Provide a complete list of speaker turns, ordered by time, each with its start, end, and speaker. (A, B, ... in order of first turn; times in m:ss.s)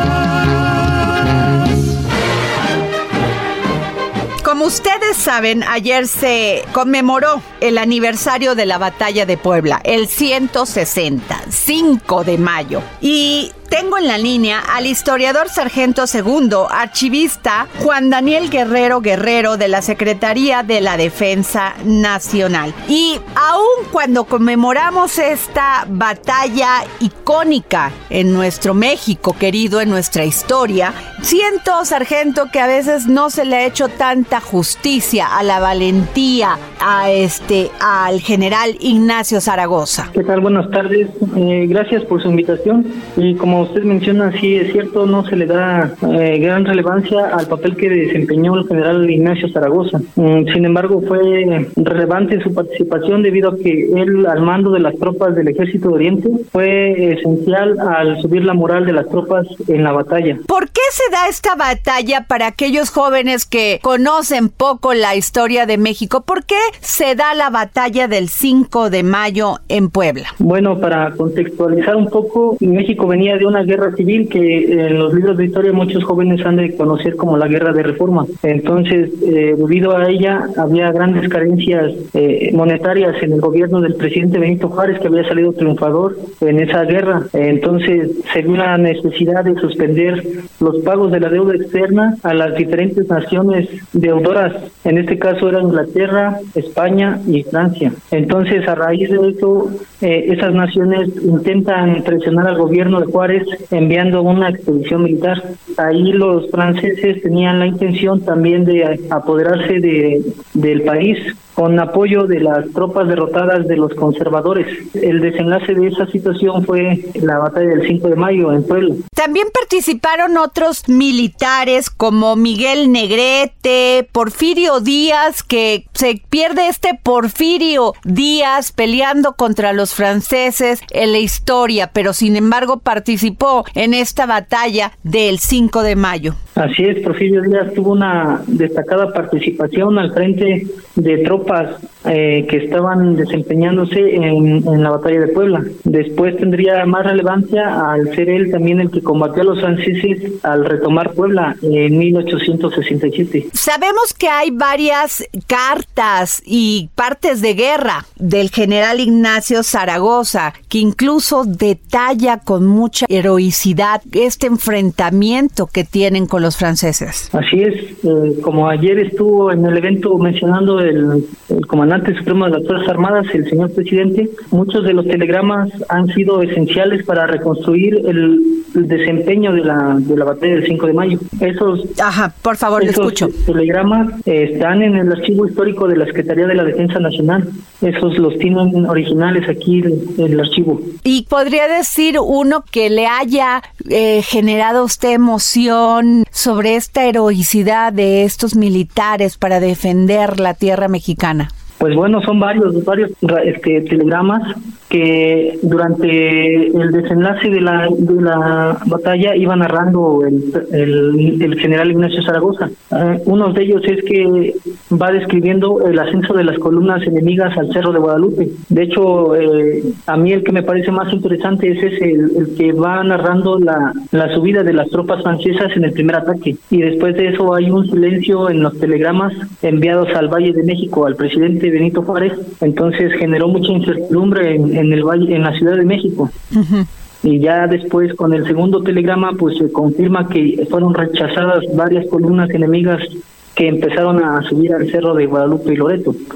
0:04.4-0:40.1 A
0:40.1-1:00.4 B
1:00.5-1:10.3 A
1:10.4-1:59.0 B
1:59.2-2:16.4 A
2:16.6-2:33.5 B
2:33.5-2:47.3 A
2:47.3-3:01.9 B
3:02.0-3:03.3 A
3:02.8-3:10.9 B
3:11.0-3:21.5 A
3:21.8-3:56.3 B
3:56.5-3:56.9 A
3:57.2-4:06.2 B